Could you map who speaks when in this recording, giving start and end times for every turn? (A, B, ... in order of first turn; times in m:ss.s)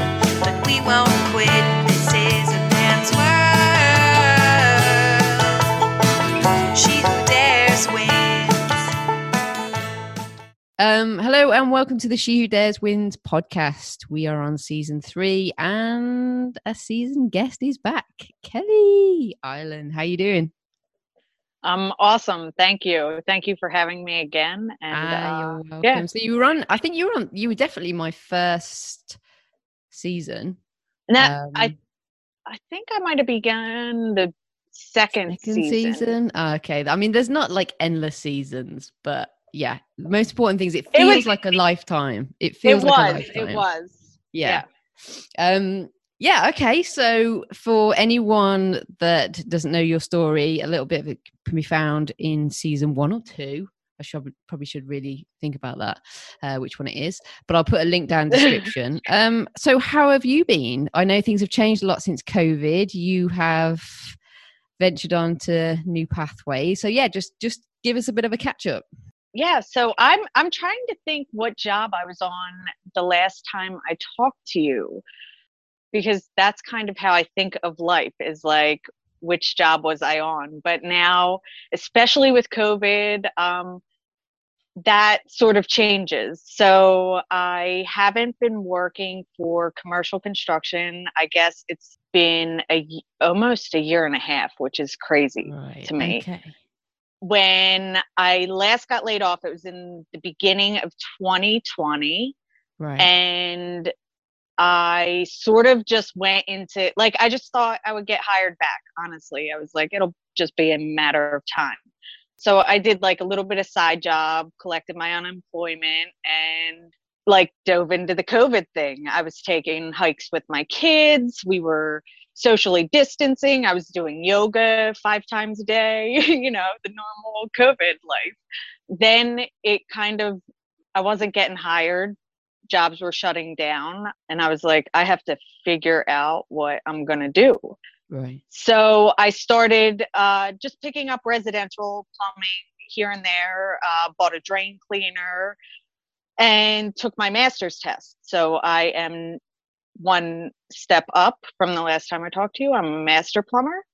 0:00.4-0:05.6 A
0:06.7-0:08.7 A
0:10.8-0:20.5 B
0:21.6-0:26.0 C
0:24.9-0:29.2 B
0:29.9-0:30.6 B
0:31.1-0:31.7 C
0:31.2-0:31.7 B
0:32.5-0:36.1 C
0:35.3-0:43.6 B
0:40.9-0:41.3 C
0:42.6-0:44.6 C
0:44.3-1:04.2 B
1:04.8-1:08.8 B
1:09.3-1:15.0 C
1:15.9-1:23.8 C
1:24.8-1:36.2 C
1:35.5-1:36.5 B
1:37.2-1:42.3 C
1:42.8-1:43.1 B
1:43.0-1:43.9 C
1:44.6-1:51.8 C
1:52.4-2:08.4 C
2:08.9-2:10.4 C
2:10.9-2:12.2 C
2:12.7-2:17.8 C
2:18.1-2:18.4 B
2:18.5-2:25.6 C
2:26.4-2:29.4 C
2:30.0-2:33.8 C